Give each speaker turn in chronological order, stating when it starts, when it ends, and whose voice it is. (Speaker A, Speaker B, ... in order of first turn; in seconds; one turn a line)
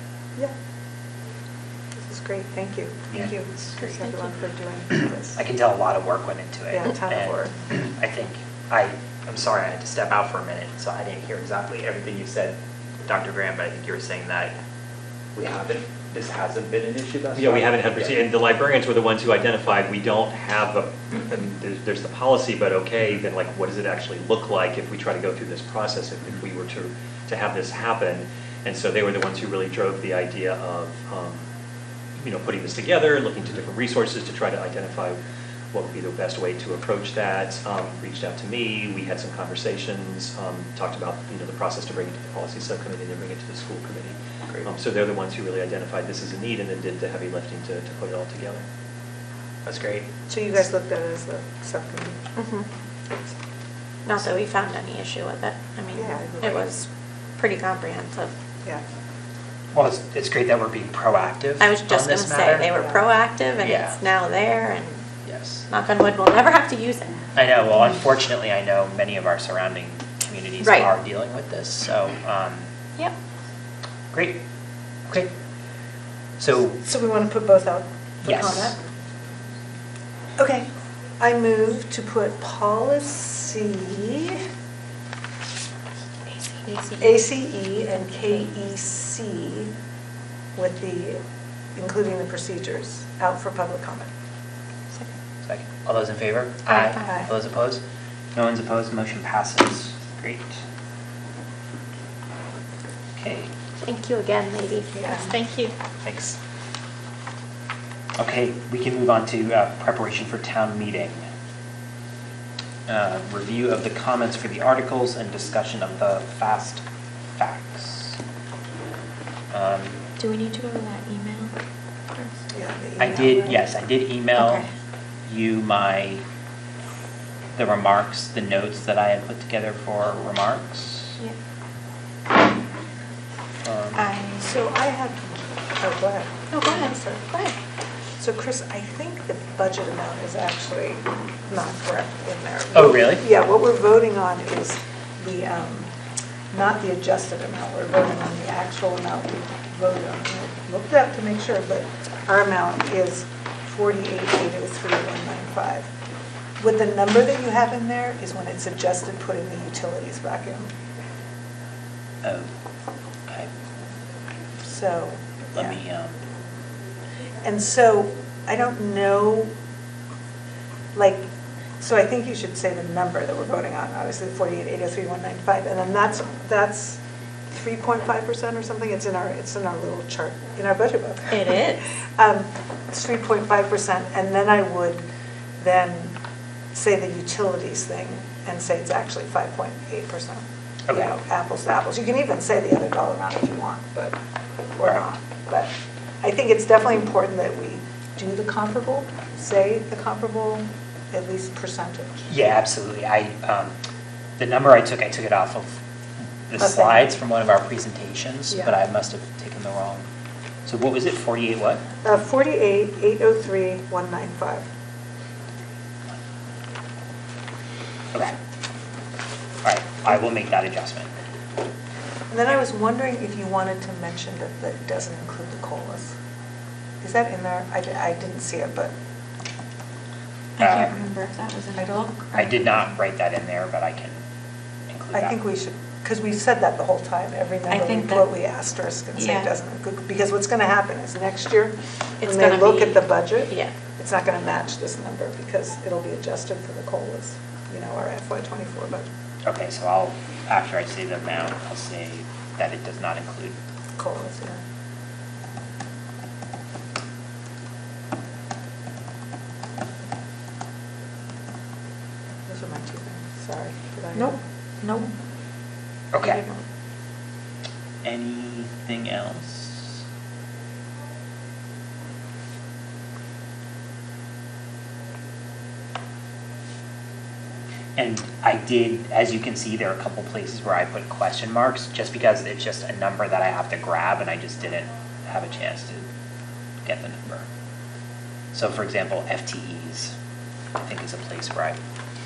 Speaker A: 1.9-5.4
Speaker B: 3.1-4.0
Speaker C: 4.0-4.3
Speaker B: 4.9-14.5
Speaker A: 6.7-7.5
Speaker B: 15.3-18.3
Speaker D: 17.3-31.4
Speaker D: 32.2-35.2
Speaker D: 35.7-44.1
Speaker D: 44.6-48.6
Speaker B: 49.6-50.1
Speaker A: 50.3-52.2
Speaker C: 52.4-52.7
Speaker C: 54.0-56.9
Speaker A: 56.0-56.7
Speaker C: 57.4-58.3
Speaker B: 59.7-62.7
Speaker C: 61.6-65.0
Speaker A: 62.8-63.0
Speaker B: 63.6-64.0
Speaker B: 65.2-65.7
Speaker C: 65.7-67.2
Speaker B: 67.3-72.7
Speaker C: 70.6-70.9
Speaker B: 74.1-74.4
Speaker B: 76.4-76.8
Speaker A: 76.8-78.8
Speaker B: 78.2-78.8
Speaker A: 80.4-80.7
Speaker A: 81.2-84.4
Speaker A: 86.9-89.7
Speaker A: 90.6-91.2
Speaker A: 91.8-94.1
Speaker B: 95.4-97.8
Speaker B: 98.3-100.6
Speaker B: 103.2-103.5
Speaker C: 103.8-105.7
Speaker A: 104.9-105.3
Speaker B: 106.0-106.4
Speaker B: 108.2-111.2
Speaker B: 112.9-116.8
Speaker B: 117.4-118.2
Speaker B: 119.5-120.0
Speaker E: 120.2-121.5
Speaker A: 122.5-123.5
Speaker B: 123.0-124.7
Speaker C: 124.4-124.7
Speaker B: 125.2-126.2
Speaker B: 127.6-131.2
Speaker B: 133.6-134.1
Speaker E: 134.0-134.4
Speaker A: 134.4-137.2
Speaker C: 136.5-137.6
Speaker A: 138.2-145.9
Speaker B: 142.7-143.2
Speaker A: 146.5-155.9
Speaker A: 156.6-160.7
Speaker B: 162.2-162.5
Speaker A: 164.6-165.8
Speaker B: 165.5-166.1
Speaker A: 167.4-169.5
Speaker A: 170.9-171.2
Speaker A: 171.8-177.0
Speaker A: 177.5-181.6
Speaker C: 181.3-181.8
Speaker A: 182.2-185.0
Speaker A: 185.6-186.2
Speaker A: 186.7-194.2
Speaker B: 190.9-191.2
Speaker A: 194.8-195.7
Speaker A: 196.2-202.3
Speaker B: 202.3-203.8
Speaker B: 204.4-205.8
Speaker B: 206.5-210.0
Speaker A: 206.6-207.2
Speaker A: 208.5-208.8
Speaker B: 210.7-211.8
Speaker A: 212.0-214.7
Speaker B: 219.6-221.1
Speaker A: 222.3-226.2
Speaker A: 227.0-228.9
Speaker B: 230.6-230.9
Speaker E: 230.6-232.6
Speaker C: 230.6-232.0
Speaker B: 232.3-234.2
Speaker B: 234.9-235.3
Speaker A: 235.1-249.1
Speaker E: 237.7-238.2
Speaker E: 239.2-239.5
Speaker C: 242.2-243.7
Speaker B: 249.4-253.6
Speaker A: 254.0-254.6
Speaker A: 262.4-264.4
Speaker C: 264.1-265.1
Speaker B: 266.1-266.4
Speaker C: 266.2-266.6
Speaker B: 268.0-270.0
Speaker B: 277.9-286.1
Speaker B: 286.9-287.5
Speaker B: 288.5-290.1
Speaker B: 290.8-291.8